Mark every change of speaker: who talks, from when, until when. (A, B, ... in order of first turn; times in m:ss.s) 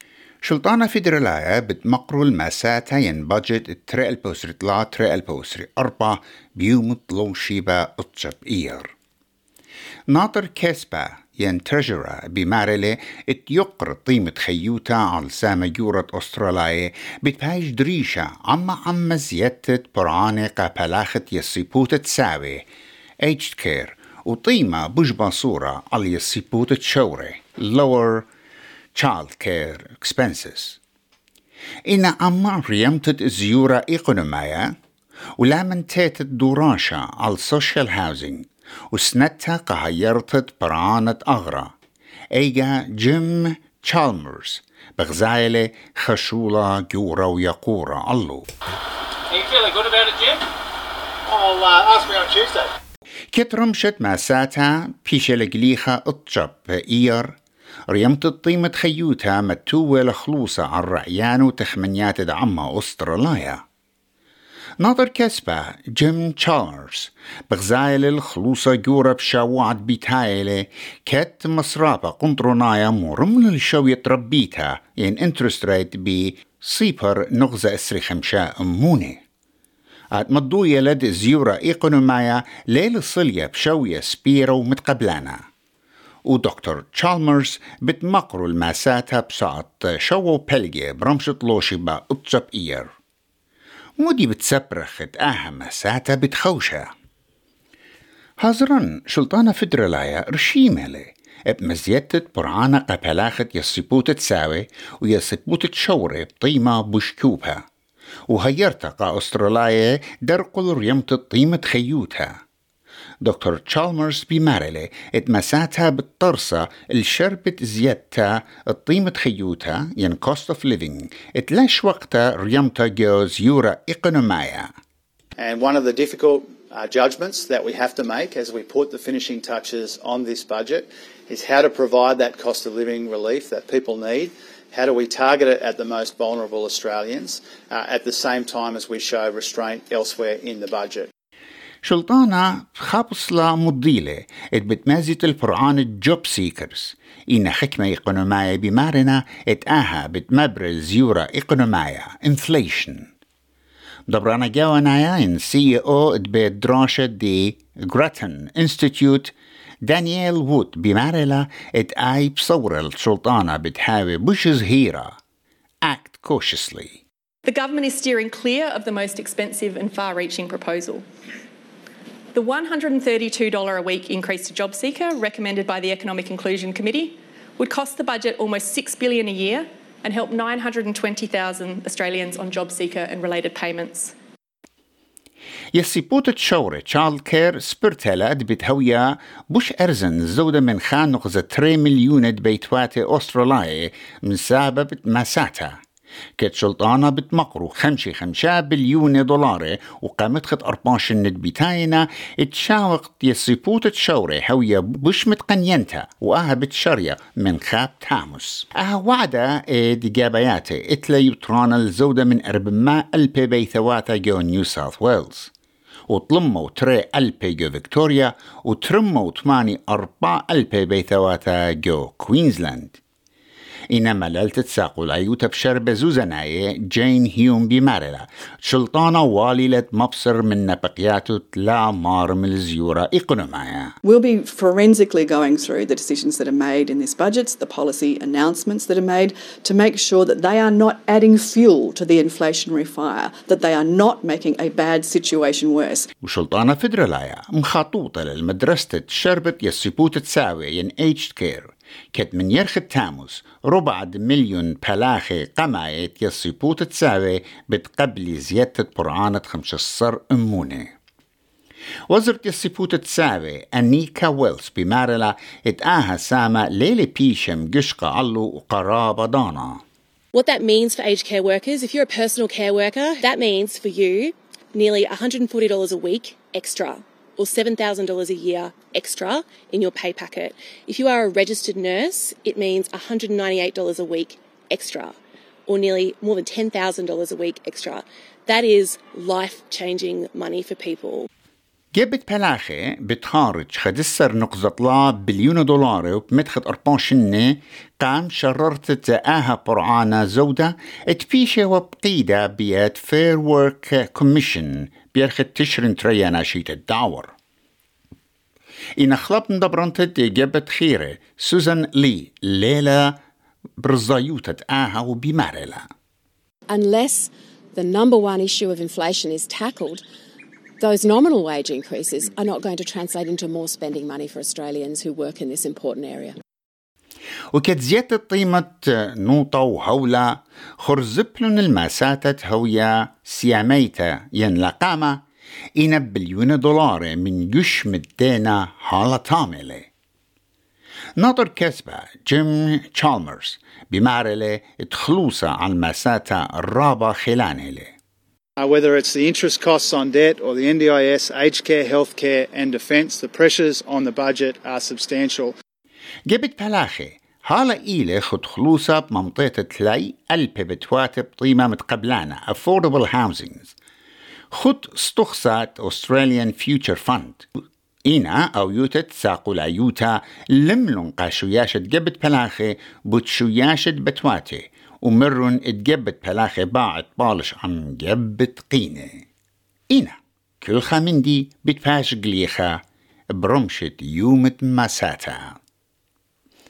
0:00.4-0:08.9 A
0:10.1-0:22.6 A
0:23.2-0:28.2 A
0:28.9-0:30.8 A
0:31.9-0:34.7 A
0:35.4-0:41.7 A
0:42.3-0:48.4 A
0:51.3-0:52.6 B
0:51.3-0:51.8 C
0:53.3-0:57.4 A
0:57.9-1:03.6 A
1:04.8-1:19.2 A
1:20.1-1:25.4 A
1:26.2-1:32.9 A
1:34.0-1:36.9 A
1:38.4-1:47.6 A
1:48.3-1:52.4 A
1:53.2-2:04.7 A
2:05.4-2:21.1 C
2:14.8-2:15.8 B
2:21.8-2:33.1 A
2:34.1-2:45.2 A
2:45.8-2:47.0 A
2:47.4-2:51.0 D
2:52.3-3:04.1 D
3:05.7-3:15.8 A
3:16.4-3:35.5 A
3:36.1-3:43.0 A
3:43.9-3:53.9 A
3:54.0-4:06.1 E
4:06.2-4:20.9 A
4:22.1-4:29.8 A
4:30.3-4:45.1 F
4:45.7-4:51.3 F
4:51.9-5:07.3 A
5:09.0-5:13.2 A
5:13.8-5:15.9 A
5:16.7-5:20.0 G
5:20.8-5:26.3 G
5:27.5-5:35.2 A
5:35.8-5:39.9 A
5:41.2-5:47.9 A
5:48.6-5:55.5 C
5:56.3-6:03.7 A
6:04.5-6:07.5 A
6:08.0-6:19.2 A
6:19.9-6:22.8 A
6:23.3-6:25.6 A